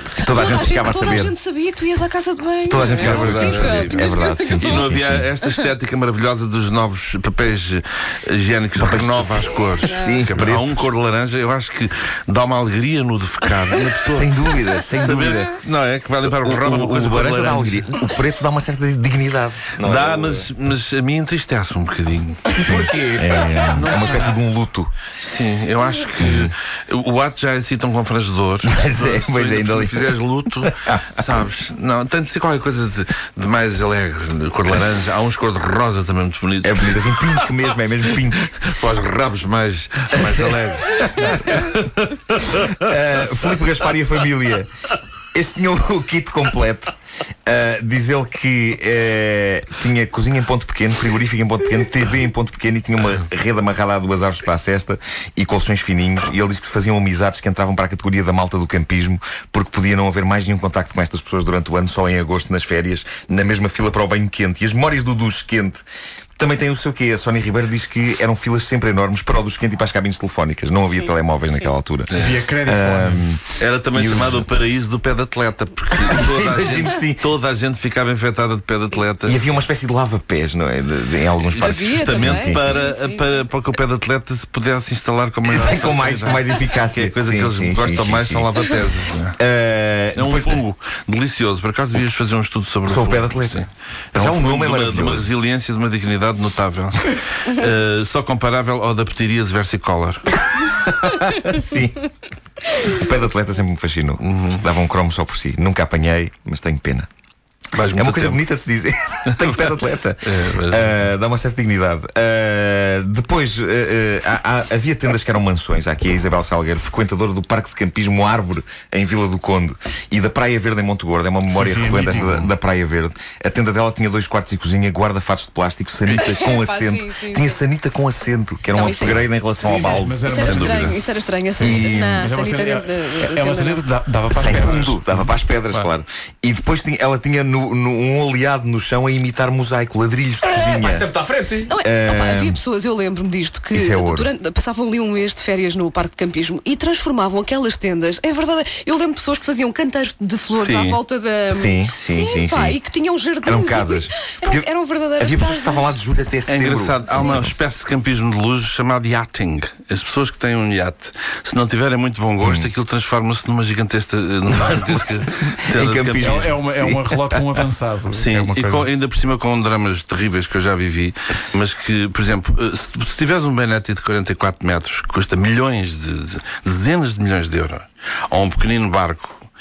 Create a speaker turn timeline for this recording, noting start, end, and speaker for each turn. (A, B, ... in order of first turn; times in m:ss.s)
0:00.2-0:01.3 A
0:00.2-0:05.7 B
0:02.7-0:05.3 A
0:02.9-0:14.3 C
0:08.8-0:10.8 A
0:09.8-0:10.2 B
0:14.1-0:15.6 A
0:14.9-0:17.9 C
0:16.4-0:20.5 A
0:19.8-0:22.6 C
0:22.6-0:23.4 D
0:22.6-0:24.9 A
0:23.7-0:24.4 C
0:25.2-0:37.3 C
0:26.2-0:26.5 A
0:28.6-0:31.3 A
0:36.6-0:38.5 A
0:38.5-0:42.6 C
0:41.0-0:41.8 A
0:42.5-0:44.7 A
0:45.3-0:46.9 A
0:47.4-1:05.8 A
1:06.4-1:14.5 A
1:11.0-1:11.7 B
1:12.1-1:12.4 C
1:12.1-1:13.2 E
1:13.6-1:19.4 C
1:15.9-1:17.2 A
1:19.2-1:22.8 A
1:21.5-1:23.4 B
1:22.0-1:29.4 C
1:25.4-1:28.5 A
1:29.4-1:30.6 A
1:30.2-1:40.4 C
1:32.8-1:33.6 A
1:34.1-1:35.3 A
1:40.8-1:42.0 A
1:42.7-1:47.1 A
1:44.2-1:44.6 C
1:47.7-1:48.4 C
1:47.9-2:10.2 A
1:50.2-1:51.0 C
2:01.5-2:02.4 E
2:01.9-2:02.4 C
2:06.1-2:07.6 B
2:08.7-2:13.8 B
2:09.6-2:10.9 E
2:10.4-2:10.9 C
2:11.5-2:12.3 A
2:11.6-2:15.3 E
2:14.3-2:21.1 A
2:20.5-2:21.7 D
2:21.7-2:35.9 B
2:21.8-2:22.6 A
2:23.7-2:24.3 A
2:30.6-2:31.0 C
2:31.5-2:32.8 A
2:33.4-2:34.7 A
2:35.2-2:37.5 A
2:36.5-2:46.6 C
2:37.0-2:37.4 B
2:42.4-2:42.7 A
2:44.6-2:47.4 A
2:46.2-2:48.9 E
2:48.1-2:59.4 C